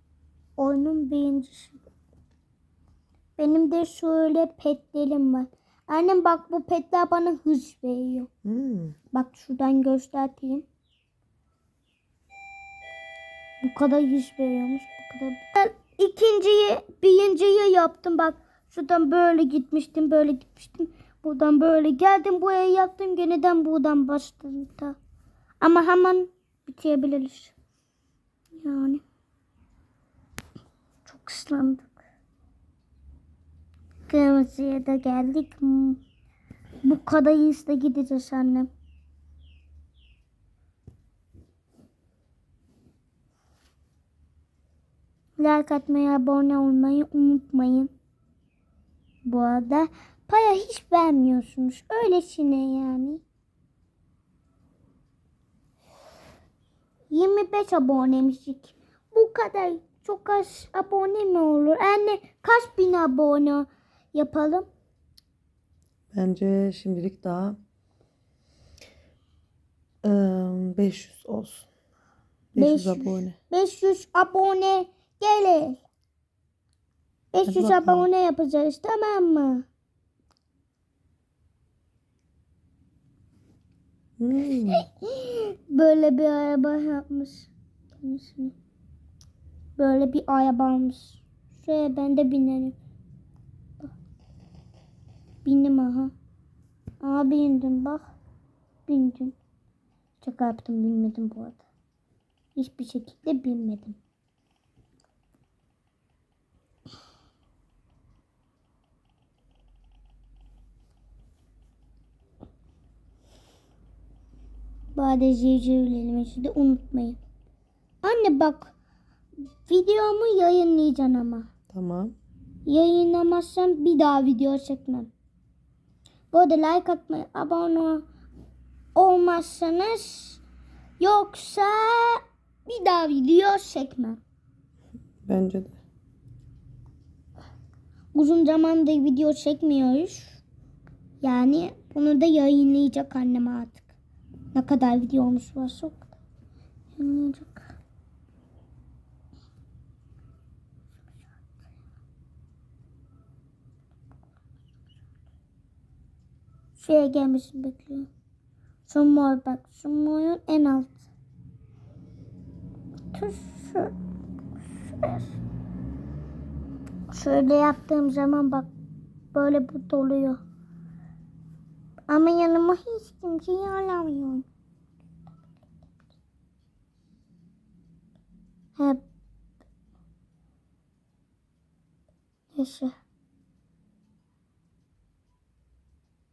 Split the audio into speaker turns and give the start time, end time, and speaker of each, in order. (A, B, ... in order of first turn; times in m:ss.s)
0:00.6-0:01.8 A
0:03.4-0:08.3 A
0:08.4-0:09.0 B
0:09.1-0:10.7 A
0:13.6-0:25.0 A
0:25.6-0:27.5 A
0:28.6-0:29.0 A
0:31.1-0:31.9 A
0:34.1-0:36.0 A
0:36.8-0:38.7 A
0:45.4-0:47.9 A
0:49.3-0:53.2 A
0:57.1-1:04.7 A
1:06.1-1:07.6 B
1:10.0-1:11.7 B
1:12.5-1:13.4 B
1:12.6-1:15.8 A
1:17.3-1:19.6 A
1:17.4-1:18.1 B
1:24.2-1:24.9 B
1:24.7-1:28.5 A
1:29.8-1:32.8 A
1:35.4-1:36.1 A
1:37.0-1:38.1 A
1:38.9-1:39.4 A
1:40.2-1:41.6 A
1:42.6-1:44.0 A
1:55.0-1:57.2 A
1:58.0-1:58.7 A
1:59.6-2:01.5 A
2:01.7-2:02.2 B
2:02.7-2:05.1 A
2:06.3-2:08.0 A
2:09.0-2:10.4 A
2:11.0-2:14.2 A
2:15.3-2:15.8 B
2:18.1-2:20.4 A
2:21.2-2:23.9 A
2:24.5-2:26.1 A
2:27.0-2:27.6 A
2:36.8-2:38.1 A
2:38.9-2:41.1 A
2:43.1-2:43.9 A
2:44.9-2:45.4 A
2:47.1-2:48.7 A
2:49.3-2:50.4 A
2:52.1-2:54.5 A
2:58.8-2:59.0 A
3:02.5-3:02.9 A